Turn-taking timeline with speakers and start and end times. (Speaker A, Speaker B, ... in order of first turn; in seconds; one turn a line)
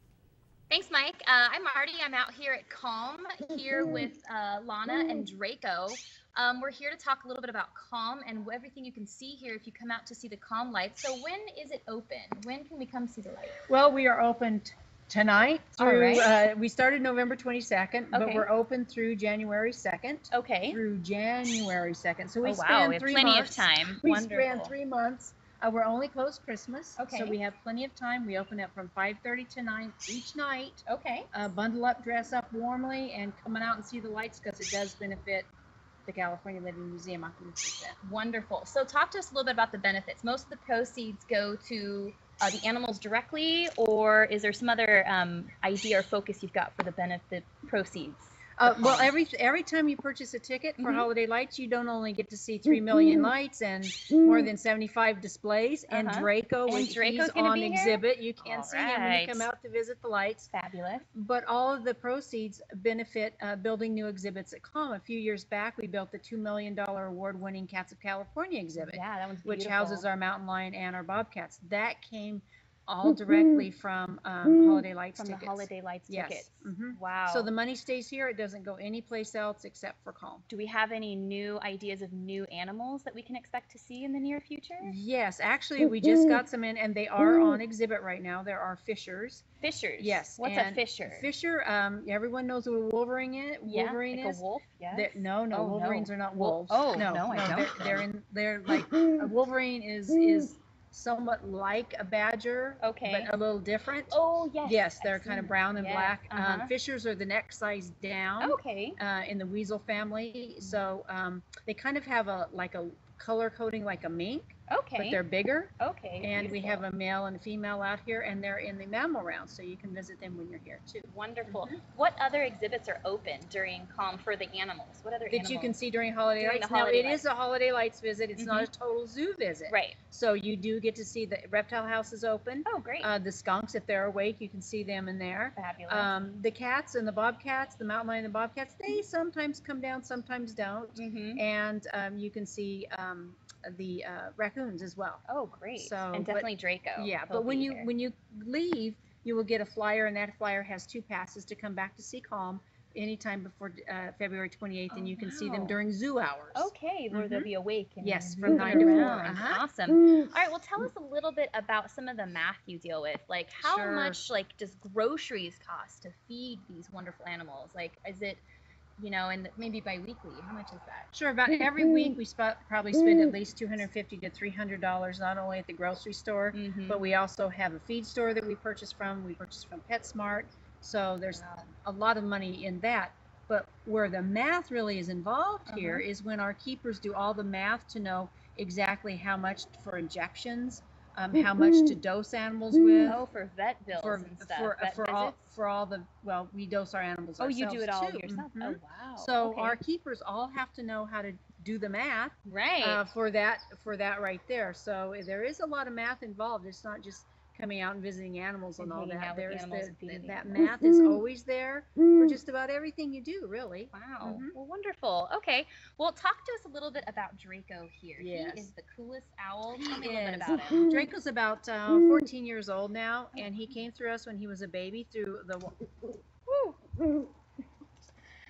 Speaker A: 0.7-13.6
Speaker B: 13.7-35.5
Speaker A: 15.8-16.3
Speaker A: 18.1-18.5
Speaker A: 20.3-20.8
Speaker A: 22.4-24.7
Speaker A: 27.0-27.4
Speaker A: 30.9-31.3
Speaker B: 36.0-38.0
Speaker A: 38.0-49.1
Speaker B: 48.6-60.5
Speaker A: 50.8-51.1
Speaker A: 55.9-59.5
Speaker A: 60.5-61.1
Speaker B: 61.1-80.4
Speaker A: 68.8-70.0
Speaker A: 75.2-77.5
Speaker A: 80.5-85.0
Speaker B: 84.8-89.4
Speaker A: 89.6-91.3
Speaker B: 90.0-94.4
Speaker A: 93.6-98.0
Speaker B: 94.9-121.7
Speaker A: 102.8-103.3
Speaker A: 104.1-106.7
Speaker A: 108.4-109.0
Speaker A: 114.7-115.2
Speaker A: 115.8-116.8
Speaker A: 121.1-125.7
Speaker B: 125.3-145.2
Speaker A: 126.3-127.2
Speaker A: 128.4-128.7
Speaker A: 129.7-130.0
Speaker A: 132.7-133.1
Speaker A: 135.6-136.1
Speaker A: 140.9-141.4
Speaker A: 145.3-147.9
Speaker B: 145.8-157.5
Speaker A: 154.9-155.7
Speaker A: 156.5-168.4
Speaker B: 158.0-159.6
Speaker B: 163.6-164.2
Speaker A: 169.0-171.1
Speaker B: 171.1-193.2
Speaker A: 176.5-177.0
Speaker A: 185.7-186.1
Speaker A: 193.0-195.5
Speaker B: 193.9-214.5
Speaker A: 197.4-199.8
Speaker A: 202.5-203.0
Speaker A: 208.8-210.7
Speaker A: 213.9-220.9
Speaker B: 218.2-218.7
Speaker B: 219.9-225.8
Speaker A: 226.5-226.7